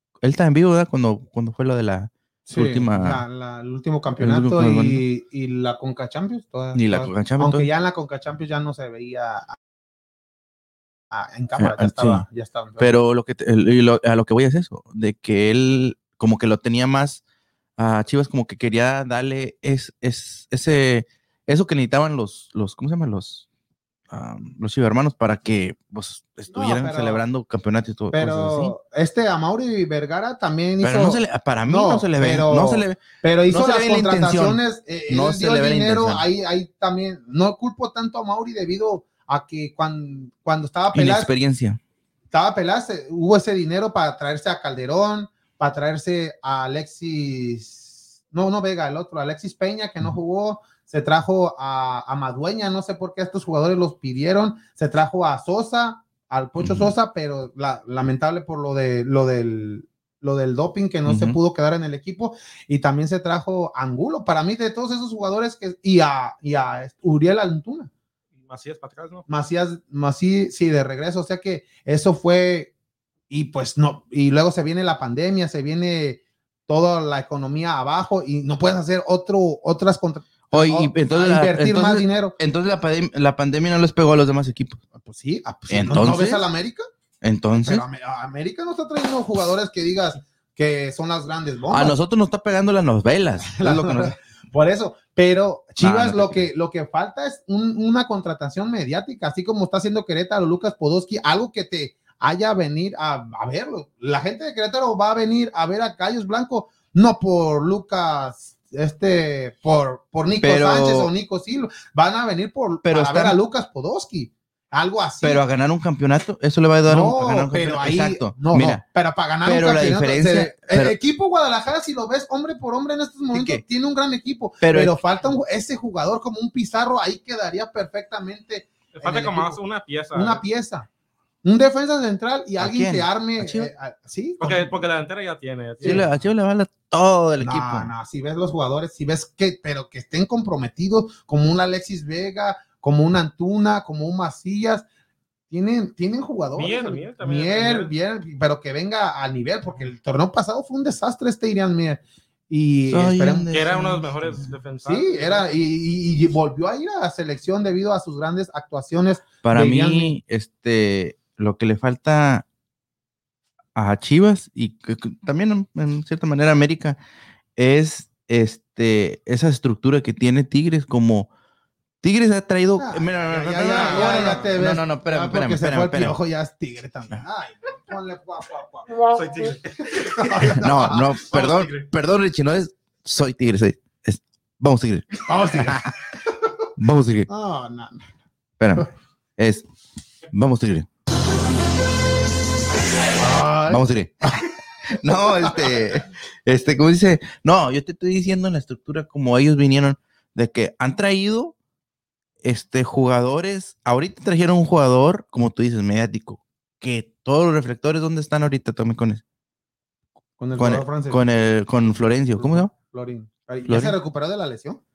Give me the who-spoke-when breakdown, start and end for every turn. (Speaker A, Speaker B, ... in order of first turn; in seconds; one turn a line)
Speaker A: 0.2-3.2
Speaker B: 2.5-9.6
Speaker A: 4.2-5.0
Speaker A: 6.7-7.7
Speaker B: 11.1-12.9
Speaker A: 11.6-12.2
Speaker A: 12.8-17.2
Speaker A: 17.8-23.4
Speaker A: 24.1-28.7
Speaker B: 26.5-27.2
Speaker B: 28.1-41.3
Speaker A: 30.8-36.2
Speaker A: 40.9-41.8
Speaker B: 42.3-67.9
Speaker A: 56.6-56.9
Speaker A: 61.0-61.4
Speaker C: 68.4-69.3
Speaker B: 69.3-72.7
Speaker B: 73.3-82.3
Speaker A: 80.5-84.8
Speaker B: 85.0-86.8
Speaker A: 85.7-86.5
Speaker A: 87.2-87.8
Speaker B: 87.5-92.0
Speaker A: 91.7-94.1
Speaker B: 93.4-115.4
Speaker A: 95.8-96.5
Speaker A: 110.4-111.1
Speaker A: 112.8-113.4
Speaker A: 115.2-118.8
Speaker B: 116.9-129.6
Speaker A: 119.4-121.0
Speaker A: 123.3-123.6
Speaker A: 124.6-125.0
Speaker C: 128.9-130.4
Speaker B: 130.1-130.9
Speaker B: 131.4-134.7
Speaker A: 132.6-133.7
Speaker C: 134.4-136.0
Speaker B: 135.8-136.1
Speaker A: 135.8-137.9
Speaker B: 137.4-144.8
Speaker B: 145.5-153.5
Speaker C: 146.5-147.9
Speaker A: 152.9-154.5
Speaker C: 153.5-155.5
Speaker B: 154.8-160.1
Speaker A: 159.4-162.4
Speaker A: 163.7-167.0
Speaker A: 167.6-171.3
Speaker A: 172.0-176.2
Speaker B: 172.8-178.9
Speaker C: 173.7-174.5
Speaker C: 179.0-180.5
Speaker B: 179.8-181.1
Speaker A: 180.5-185.9
Speaker C: 181.2-181.9
Speaker B: 185.3-185.9
Speaker A: 186.8-187.3
Speaker B: 187.3-188.1
Speaker A: 188.6-189.7
Speaker A: 190.3-190.9
Speaker B: 193.2-194.5
Speaker A: 193.7-201.5
Speaker B: 195.4-195.7
Speaker A: 202.4-209.2
Speaker B: 210.4-211.2
Speaker A: 210.6-212.7
Speaker B: 212.3-214.8
Speaker A: 213.7-213.9